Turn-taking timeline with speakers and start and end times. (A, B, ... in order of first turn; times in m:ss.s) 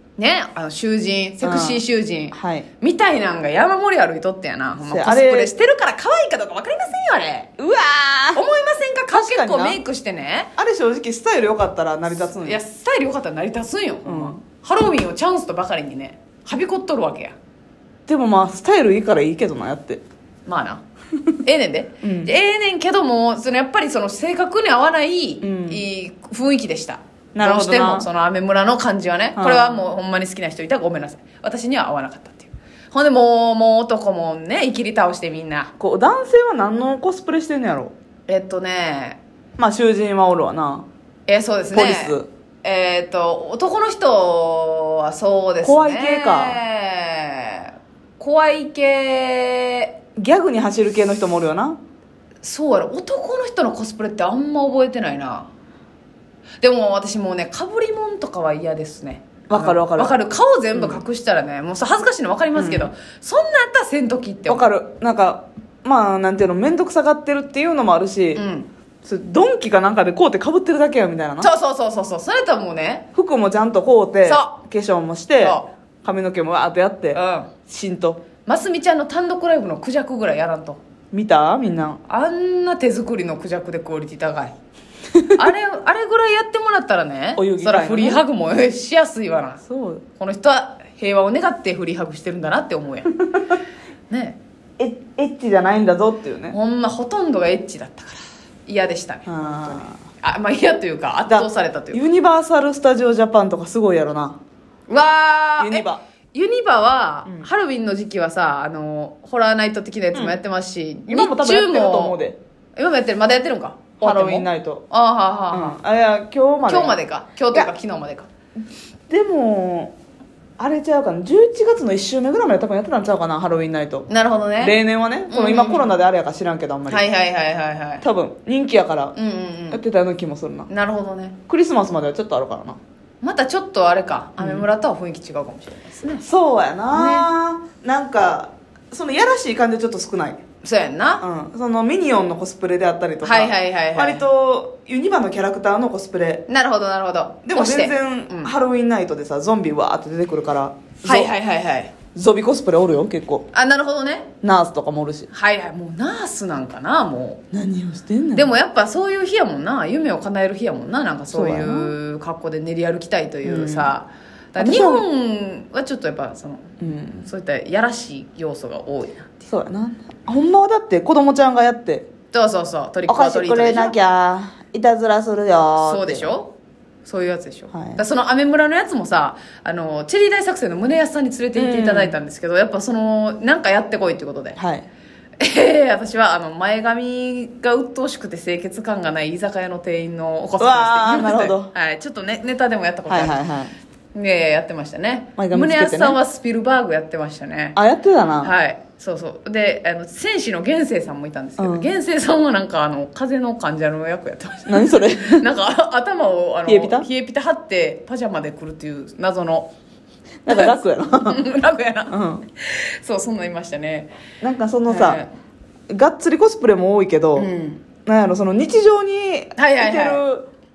0:00.2-0:07.5 A
0:01.4-0:02.7 B
0:04.8-0:05.5 B
0:07.6-0:08.4 B
0:08.3-0:10.5 A
0:09.1-0:09.8 B
0:10.6-0:12.6 B
0:12.4-0:17.4 A
0:14.0-0:14.4 B
0:18.1-0:20.0 B
0:20.5-0:20.8 A
0:21.4-0:35.7 A
0:22.0-0:22.3 B
0:25.4-0:25.9 B
0:27.3-0:28.1 B
0:29.4-0:29.9 B
0:35.8-0:37.9 B
0:38.3-0:39.2 A
0:39.6-0:40.9 B
0:41.3-0:50.0 A
0:41.7-0:42.3 B
0:45.6-0:46.6 B
0:50.2-0:51.8 B
0:52.4-0:55.5 A
0:56.6-1:04.7 A
0:59.5-1:00.2 B
1:00.7-1:01.0 B
1:02.6-1:02.9 B
1:04.5-1:08.4 B
1:08.4-1:08.7 A
1:09.0-1:11.5 B
1:11.4-1:13.0 A
1:13.2-1:18.2 B
1:14.2-1:14.6 A
1:15.4-1:15.7 A
1:17.1-1:17.5 A
1:18.5-1:20.8 A
1:21.1-1:22.0 B
1:22.1-1:24.5 A
1:25.4-1:29.6 A
1:27.4-1:28.2 B
1:29.7-1:30.0 B
1:30.2-1:33.2 A
1:34.1-1:34.4 A
1:34.8-1:36.6 B
1:36.5-1:42.0 A
1:39.3-1:40.0 B
1:41.3-1:44.4 B
1:44.9-1:52.2 A
1:45.6-1:46.0 B
1:51.1-1:52.4 B
1:52.8-1:55.8 A
1:54.0-1:54.8 B
1:55.5-1:57.0 B
1:56.7-1:58.3 A
1:59.1-2:00.0 B
2:00.6-2:04.1 B
2:04.1-2:04.8 A
2:04.6-2:07.0 B
2:05.3-2:05.9 A
2:06.9-2:08.0 A
2:08.0-2:09.2 B
2:09.2-2:09.8 A
2:09.7-2:10.7 B
2:10.7-2:11.4 A
2:11.5-2:12.8 B
2:13.2-2:16.2 A
2:14.4-2:14.6 B
2:16.2-2:20.4 B
2:16.9-2:17.3 A
2:20.6-2:21.2 A
2:21.2-2:26.5 B
2:23.2-2:24.2 A
2:26.5-2:28.5 A
2:27.4-2:31.3 B
2:31.0-2:31.9 A
2:32.1-2:33.5 B
2:33.5-2:34.3 A
2:34.4-2:35.3 B
2:35.3-2:37.4 A
2:37.5-2:38.5 B
2:38.3-2:49.3 A
2:41.3-2:42.0 B
2:43.4-2:43.9 B
2:44.6-2:45.0 B
2:46.8-2:47.3 B
2:49.5-2:52.1 B
2:52.3-2:54.0 A
2:53.1-2:56.3 B
2:55.8-2:56.5 A
2:57.0-3:04.6 A
2:57.7-2:58.0 B
3:01.6-3:02.2 B
3:04.6-3:04.9 B
3:05.4-3:13.4 A
3:10.6-3:11.7 B
3:13.1-3:13.7 B
3:14.1-3:17.8 A
3:15.4-3:16.2 B
3:17.8-3:18.5 B
3:18.4-3:29.7 A
3:21.6-3:21.9 B
3:24.7-3:25.5 B
3:26.7-3:27.1 B
3:30.4-3:31.4 B
3:30.5-3:34.1 A
3:32.1-3:32.4 B
3:34.4-3:35.2 B
3:34.9-3:35.3 A
3:35.9-3:37.5 B
3:37.4-3:37.8 A
3:38.1-3:40.5 B
3:39.6-3:40.2 A